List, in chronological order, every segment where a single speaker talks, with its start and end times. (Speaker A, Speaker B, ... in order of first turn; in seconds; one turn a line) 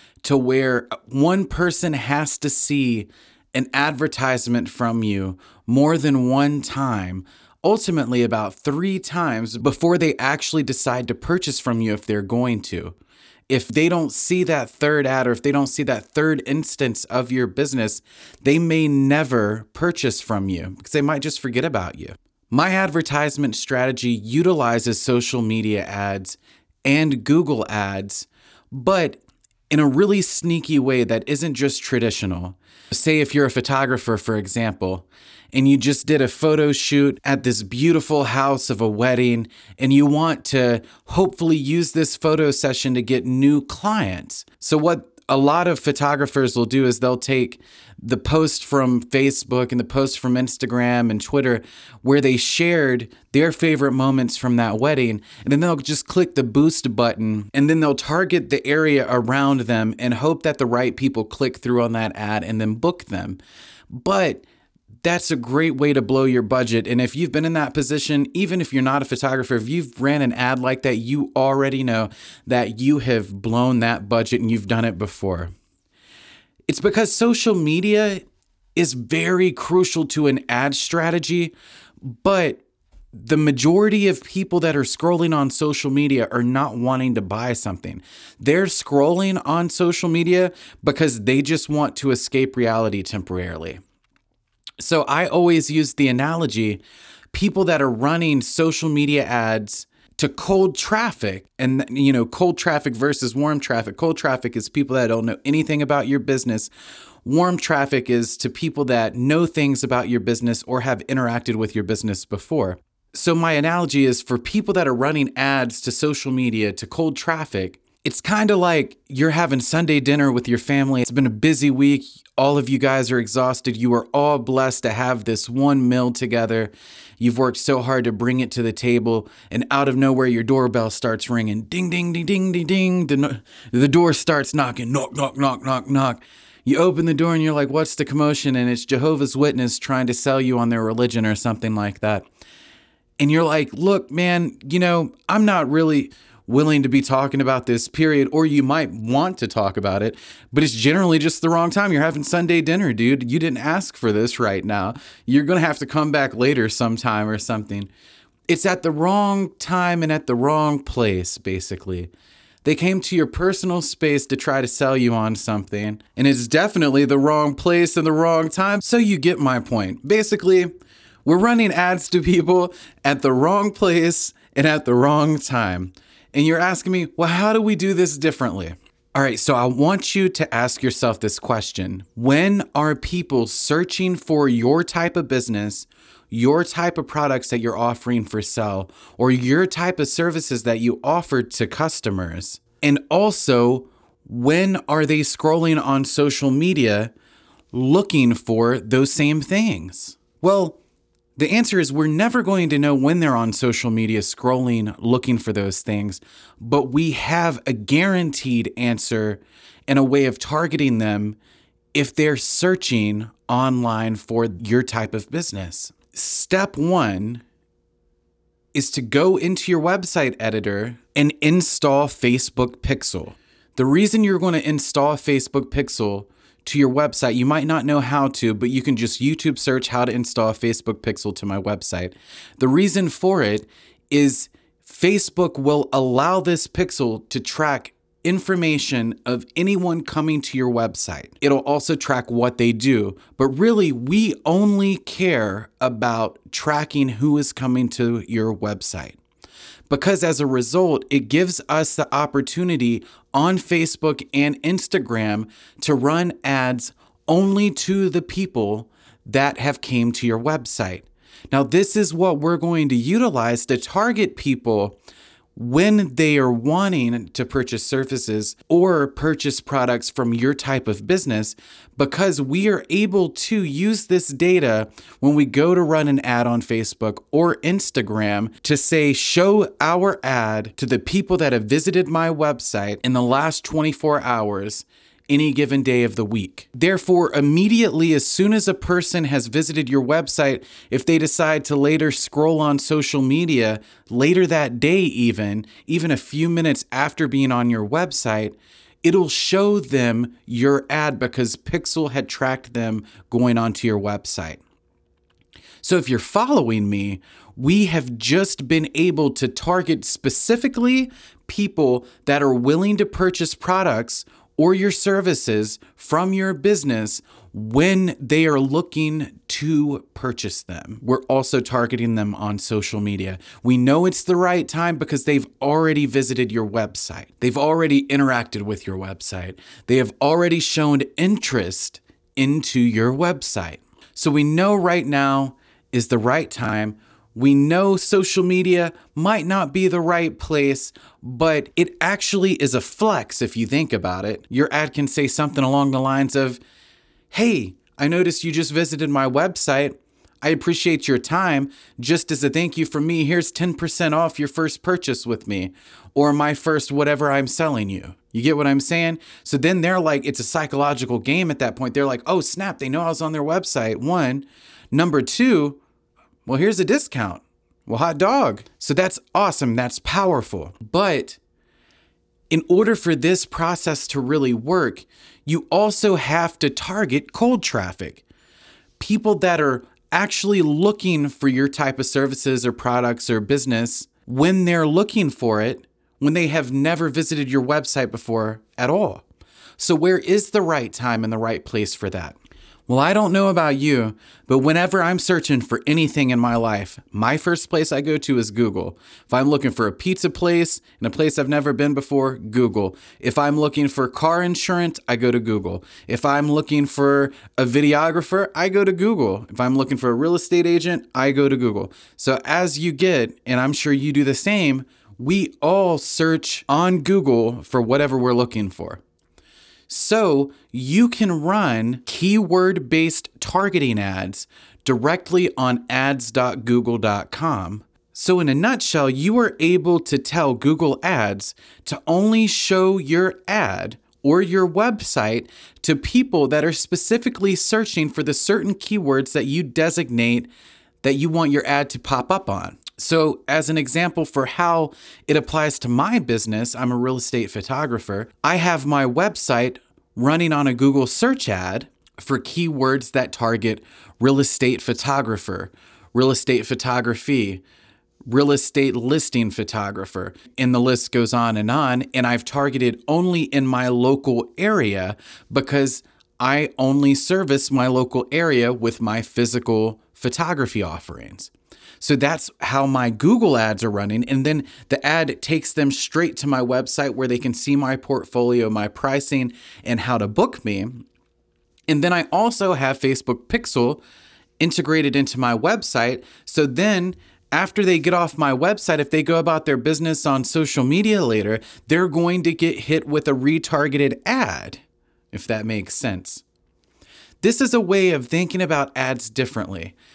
Speaker A: 0.2-12.9
Speaker A: 13.5-63.4
Speaker A: 63.9-64.4
Speaker A: 65.0-75.5
Speaker A: 76.7-78.2
Speaker A: 78.8-93.8
Speaker A: 94.8-106.7
Speaker A: 107.2-142.2
Speaker A: 143.2-157.9
Speaker A: 158.5-162.1
Speaker A: 162.6-170.7
Speaker A: 171.2-197.1
Speaker A: 197.7-200.8
Speaker A: 201.4-211.4
Speaker A: 211.9-217.4
Speaker A: 218.7-249.2
Speaker A: 249.9-265.0
Speaker A: 265.6-304.6
Speaker A: 305.8-346.6
Speaker A: 347.3-365.8
Speaker A: 366.4-371.4
Speaker A: 372.5-378.2
Speaker A: 379.0-389.2
Speaker A: 389.8-392.4
Speaker A: 392.9-419.0
Speaker A: 419.9-440.5
Speaker A: 441.0-457.6
Speaker A: 458.3-481.0
Speaker A: 481.9-484.0
Speaker A: 484.6-496.4
Speaker A: 497.4-499.9